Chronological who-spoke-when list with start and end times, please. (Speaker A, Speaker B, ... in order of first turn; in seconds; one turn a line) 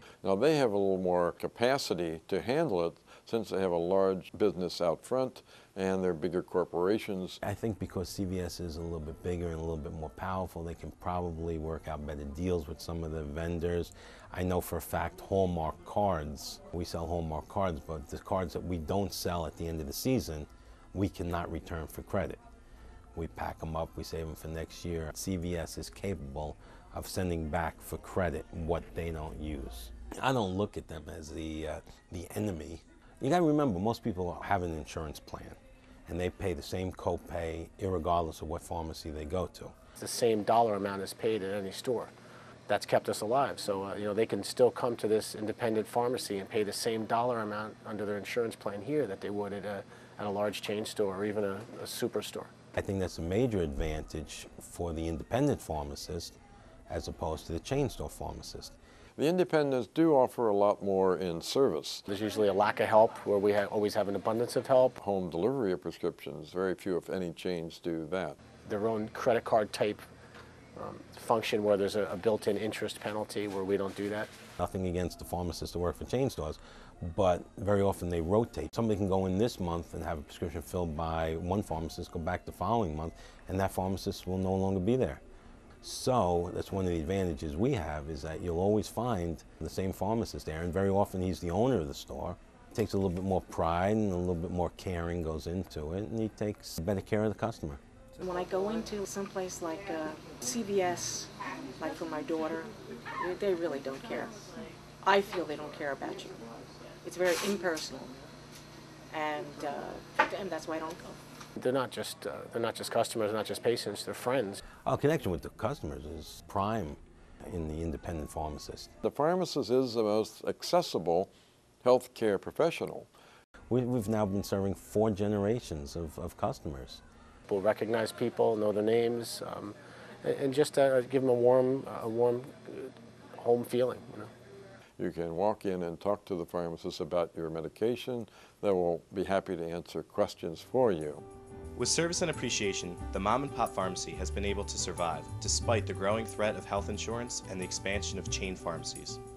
Speaker A: 0.2-7.4
Speaker B: 7.4-22.4
Speaker B: 23.1-39.7
Speaker C: 40.0-42.1
Speaker C: 42.7-52.5
Speaker B: 52.7-56.3
Speaker B: 56.9-58.8
Speaker A: 59.2-62.0
Speaker C: 62.1-65.0
Speaker A: 65.0-68.4
Speaker C: 68.6-70.0
Speaker C: 70.8-74.3
Speaker B: 74.6-85.2
Speaker B: 85.8-97.8
Speaker D: 98.1-104.5
Speaker D: 105.0-106.4
Speaker D: 107.0-108.2
Speaker D: 109.1-111.2
Speaker C: 111.6-114.6
Speaker B: 114.8-118.9
Speaker A: 119.0-121.3
Speaker A: 121.8-123.1
Speaker B: 123.7-127.0
Speaker C: 127.5-134.3
Speaker A: 135.0-141.2
Speaker E: 141.8-149.2